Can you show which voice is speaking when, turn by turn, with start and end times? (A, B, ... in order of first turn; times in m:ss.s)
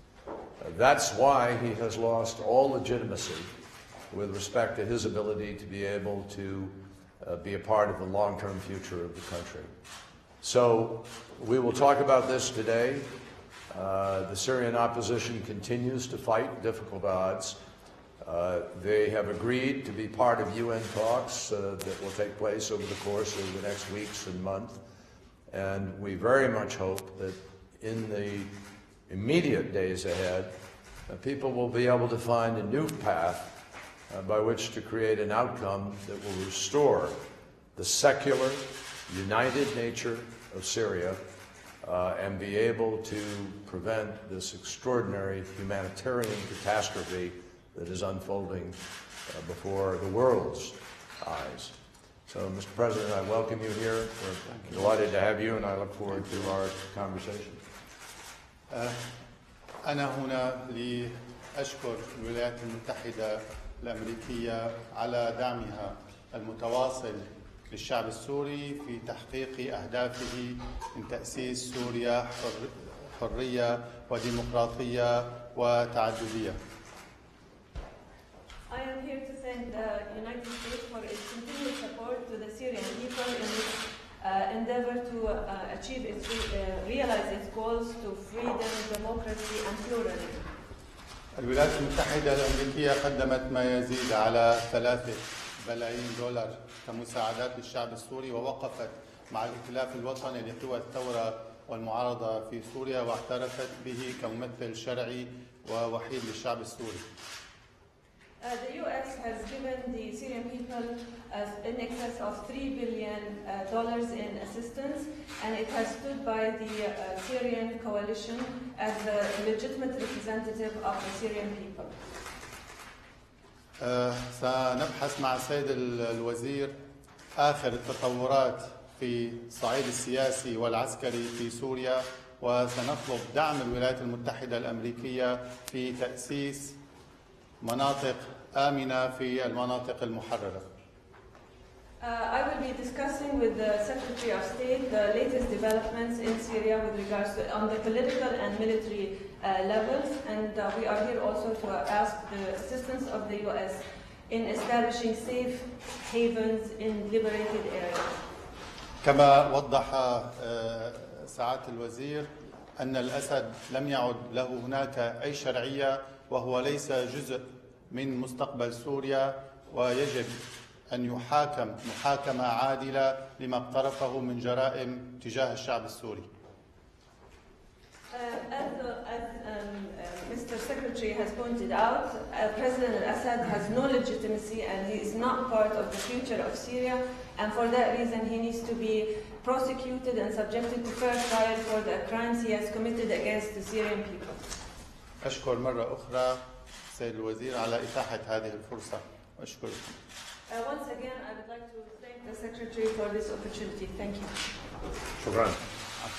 0:00.6-0:03.5 A
0:04.1-0:09.7 A
0:10.4-0:13.1 A
0:13.7-0:17.6 A
0:18.2-0:24.8 A
0:25.5-0:28.5 A
0:29.1-0:30.5 A
0:31.1-0:33.5 A
0:34.1-0:37.2 A
0:37.8-0:41.2 A
0:41.8-0:51.8 A
0:52.3-0:57.6 A
0:58.7-0:59.0 B
0:59.8-1:16.6 B
1:18.7-1:30.5 C
1:31.4-1:47.0 B
1:48.4-2:01.9 C
2:03.8-2:06.7 B
2:07.4-2:16.8 B
2:17.6-2:20.6 B
2:22.0-2:38.1 C
2:39.0-2:56.3 B
2:58.1-3:14.4 C
3:15.2-3:16.4 B
3:16.9-3:20.0 B
3:20.5-3:24.4 C
3:25.2-3:25.6 A